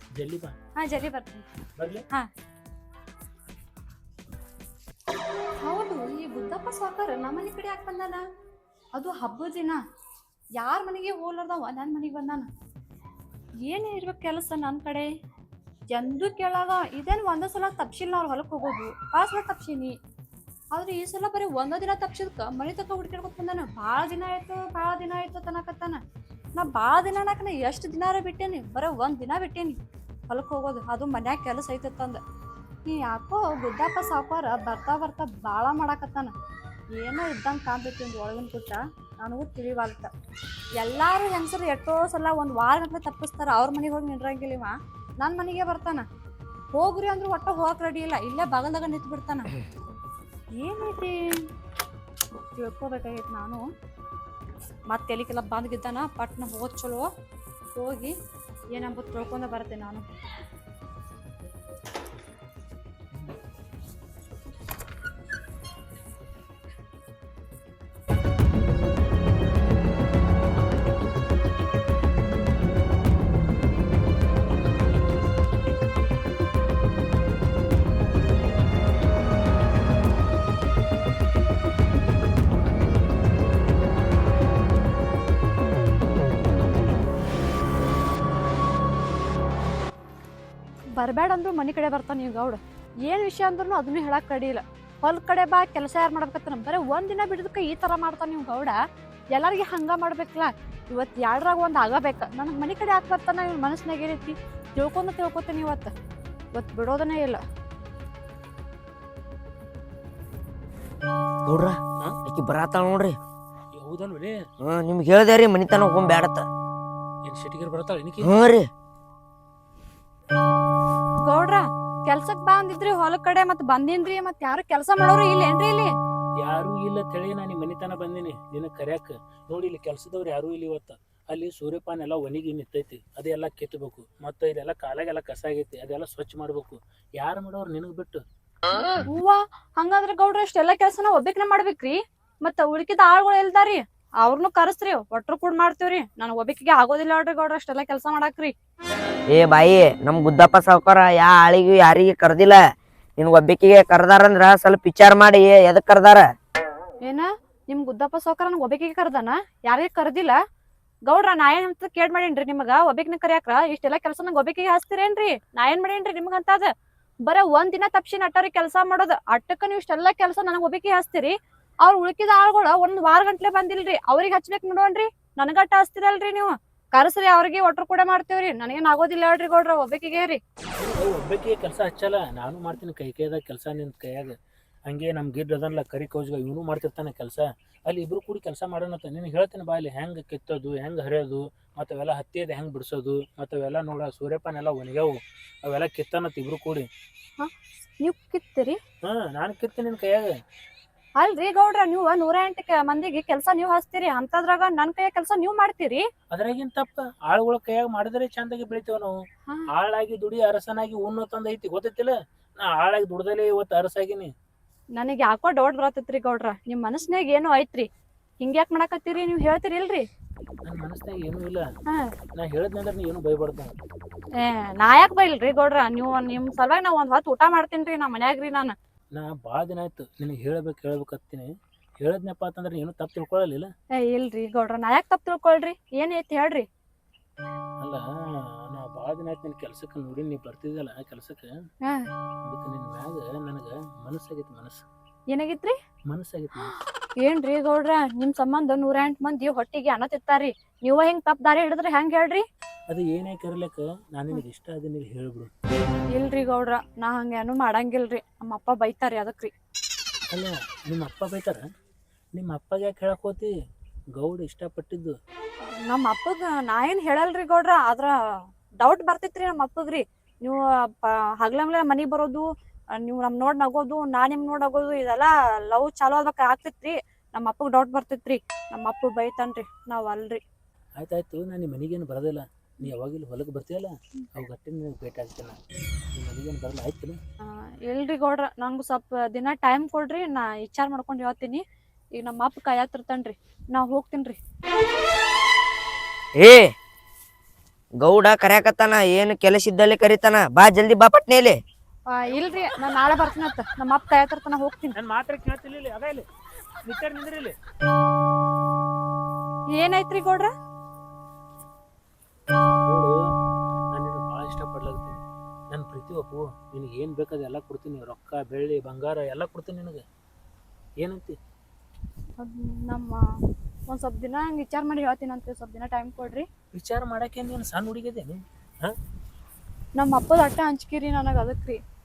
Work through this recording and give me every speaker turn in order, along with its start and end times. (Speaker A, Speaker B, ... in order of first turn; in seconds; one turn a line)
Speaker A: 0.2-0.5
Speaker B: 0.8-1.4
Speaker A: 1.8-2.0
Speaker B: 5.6-8.2
Speaker B: 8.9-9.8
Speaker B: 10.6-12.5
Speaker B: 13.6-15.1
Speaker B: 15.9-19.9
Speaker B: 20.7-26.0
Speaker B: 26.6-32.2
Speaker B: 32.8-36.3
Speaker B: 36.9-40.1
Speaker B: 40.8-46.0
Speaker B: 46.7-49.5
Speaker B: 50.5-51.4
Speaker B: 52.5-53.6
Speaker B: 54.9-57.1
Speaker B: 57.7-58.1
Speaker B: 58.7-60.0
Speaker B: 90.9-98.8
Speaker B: 99.3-105.9
Speaker B: 106.5-107.4
Speaker C: 111.4-113.2
Speaker A: 113.7-114.4
Speaker C: 114.6-116.5
Speaker A: 117.2-118.3
Speaker C: 118.2-118.7
Speaker B: 121.2-125.9
Speaker A: 126.4-138.2
Speaker B: 139.0-148.5
Speaker C: 149.3-152.6
Speaker C: 153.2-156.2
Speaker B: 157.0-160.4
Speaker B: 161.1-166.7
Speaker B: 167.2-180.4
Speaker A: 180.8-184.3
Speaker A: 184.8-196.9
Speaker B: 197.4-198.8
Speaker A: 199.0-200.3
Speaker B: 201.2-206.1
Speaker A: 206.3-209.1
Speaker A: 209.7-214.3
Speaker B: 214.9-217.9
Speaker B: 218.4-220.1
Speaker A: 220.6-221.6
Speaker B: 221.9-222.1
Speaker A: 222.3-223.7
Speaker B: 224.3-228.7
Speaker A: 229.1-233.7
Speaker B: 233.9-236.7
Speaker A: 238.6-241.5
Speaker B: 241.8-242.1
Speaker A: 242.4-244.8
Speaker B: 245.3-245.8
Speaker A: 246.1-246.7
Speaker B: 246.6-252.4
Speaker A: 252.9-255.5
Speaker B: 256.1-259.5
Speaker A: 260.3-261.6
Speaker A: 262.3-263.5
Speaker A: 264.1-265.1
Speaker B: 265.9-280.4
Speaker A: 281.0-285.6
Speaker A: 286.1-287.2
Speaker B: 287.4-291.6
Speaker B: 292.1-294.4
Speaker C: 296.4-296.7
Speaker C: 298.0-301.6
Speaker B: 302.1-304.9
Speaker A: 304.9-306.2
Speaker A: 306.8-307.6
Speaker B: 309.7-310.5
Speaker A: 312.9-313.2
Speaker A: 313.9-320.0
Speaker A: 321.0-321.4
Speaker B: 322.4-323.2
Speaker B: 323.9-326.5
Speaker A: 326.7-328.9
Speaker B: 329.9-331.8